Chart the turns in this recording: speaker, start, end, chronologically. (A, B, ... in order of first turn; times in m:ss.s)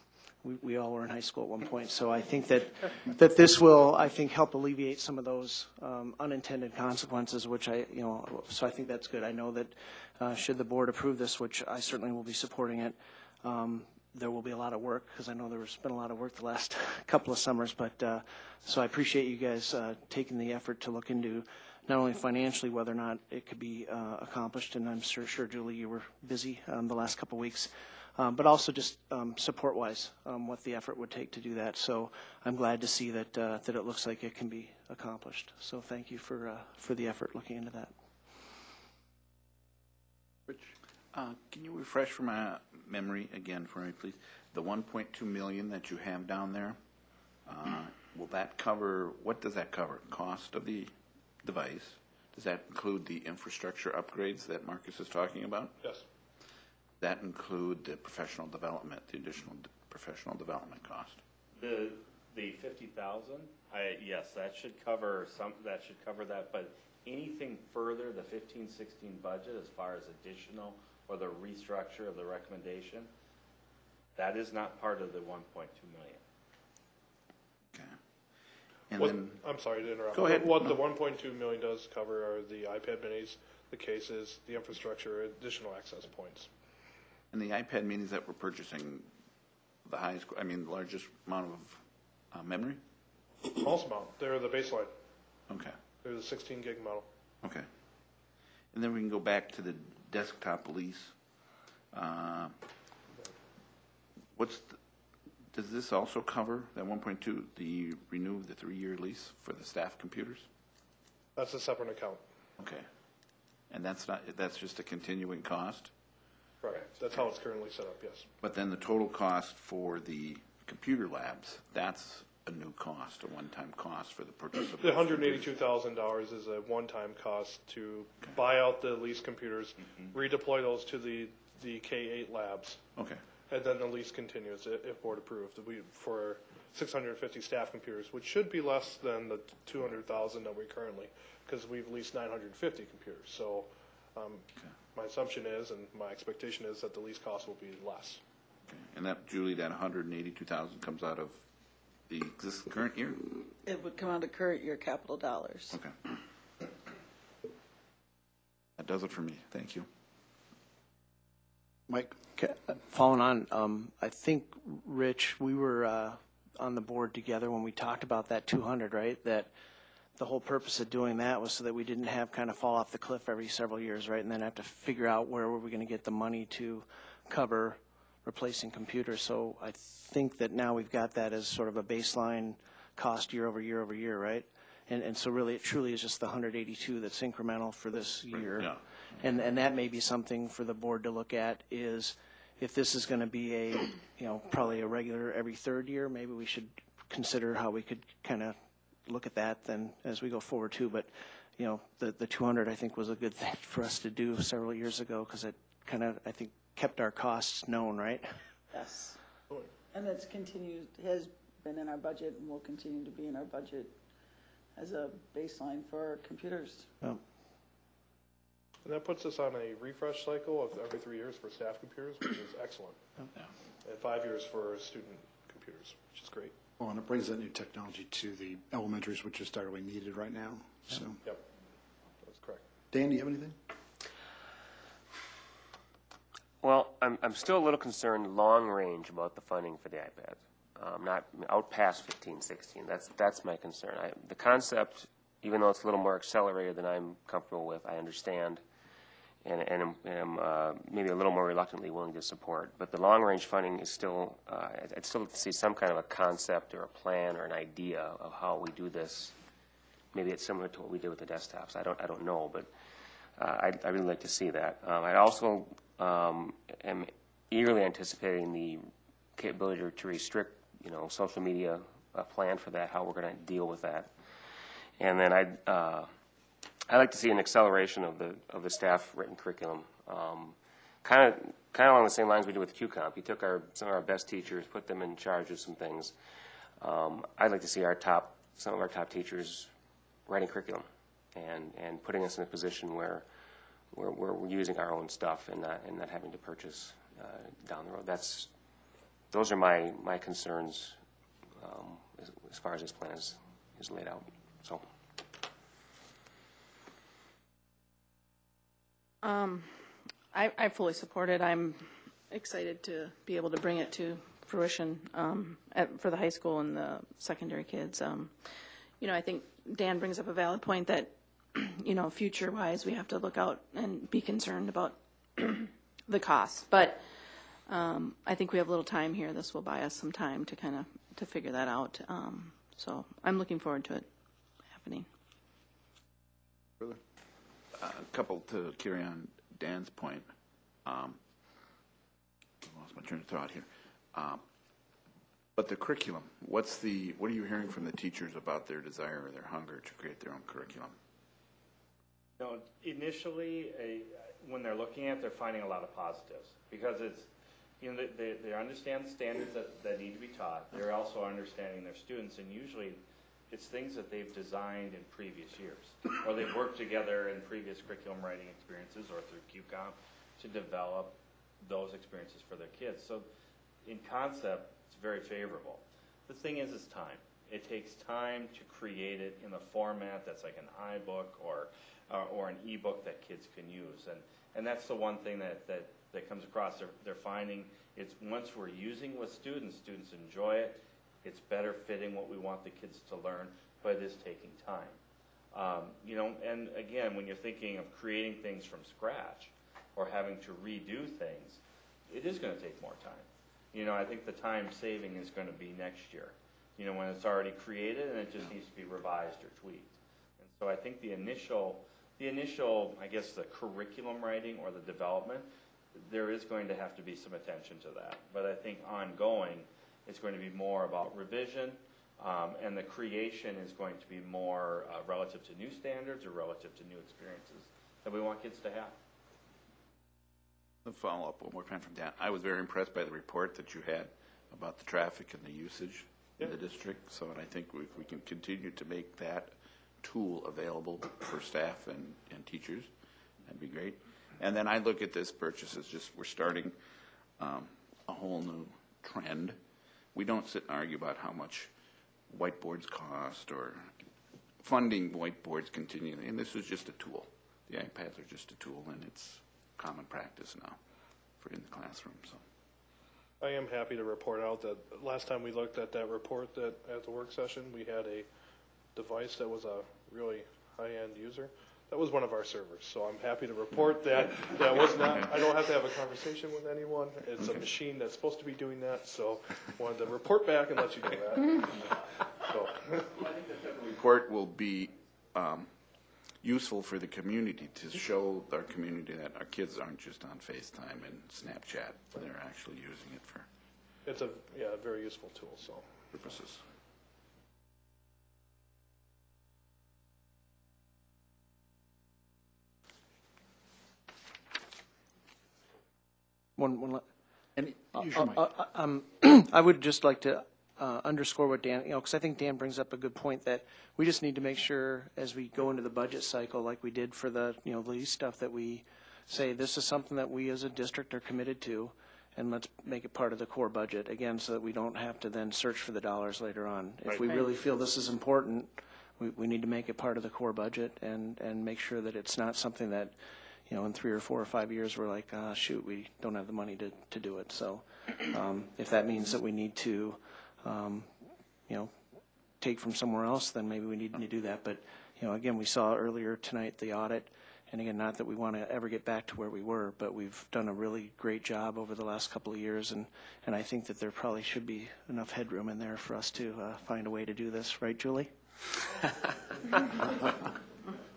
0:00.4-0:37.9 A
0:41.1-0:46.8 B
0:47.4-0:55.7 B
0:57.0-1:01.2 B
1:01.6-1:12.9 C
1:14.2-1:16.1 C
1:17.7-1:18.0 B
1:18.9-1:19.4 B
1:19.0-1:26.5 D
1:20.1-1:20.8 B
1:27.3-1:29.1 B
1:29.8-1:32.8 B
1:33.5-1:34.9 D
1:35.5-1:35.8 B
1:36.0-1:37.1 D
1:37.4-1:37.7 B
1:38.7-1:41.1 B
1:41.9-1:42.5 B
1:44.3-1:44.8 B
1:45.5-1:50.5 B
1:51.4-1:52.2 D
1:52.6-1:52.8 B
1:53.7-1:55.9 B
1:56.6-1:58.3 D
1:58.4-2:05.5 B
2:04.8-2:12.8 D
2:13.0-2:13.2 B
2:13.5-2:28.2 D
2:28.7-2:31.4 B
2:32.1-2:33.2 B
2:33.6-2:35.8 E
2:38.8-2:39.9 B
2:41.9-2:42.2 F
2:42.4-2:49.5 A
2:50.2-3:28.4 A
3:08.3-3:09.2 B
3:28.7-3:29.2 E
3:29.9-3:34.0 E
3:34.8-3:36.9 E
3:38.8-3:43.0 D
3:43.8-3:46.5 D
3:46.8-3:51.2 F
3:52.2-3:52.6 D
3:52.9-3:53.6 F
3:56.6-4:08.6 G
4:09.4-4:19.3 G
4:20.1-4:22.7 G
4:23.4-4:34.1 G
4:35.0-4:36.1 G
4:36.9-4:46.1 G
4:46.8-4:49.7 G
4:50.2-4:53.2 G
4:53.9-4:58.5 G
4:59.3-5:01.0 G
5:01.6-5:04.8 G
5:09.2-5:18.5 H
5:19.0-5:27.0 H
5:27.7-5:34.1 H
5:34.7-5:35.1 H
5:37.7-5:40.3 B
5:40.8-5:41.2 B
5:42.6-5:44.4 B
5:45.5-5:50.9 B
5:52.4-5:57.2 C
5:57.8-6:03.0 C
6:03.5-6:11.1 C
6:11.6-6:13.2 C
6:13.9-6:15.8 C
6:16.3-6:34.9 C
6:35.6-6:41.6 C
6:42.1-6:43.2 C
6:43.7-6:49.8 C
6:50.6-6:55.4 C
6:56.1-7:08.9 C
7:10.8-7:22.9 B
7:23.4-7:26.7 B
7:27.4-7:29.6 B
7:30.1-7:31.7 B
7:32.3-7:33.9 B
7:34.6-7:40.8 B
7:41.4-7:42.4 B
7:43.4-7:48.3 D
7:49.0-8:01.8 D
7:54.9-7:55.3 B
7:57.4-7:57.6 B
8:02.4-8:03.1 D
8:03.5-8:05.7 B
8:06.4-8:13.5 B
8:14.0-8:15.9 D
8:16.1-8:16.6 B
8:26.6-8:27.0 A
8:27.6-8:28.4 F
8:27.9-8:53.1 A
8:53.7-9:01.1 A
9:02.6-9:18.3 A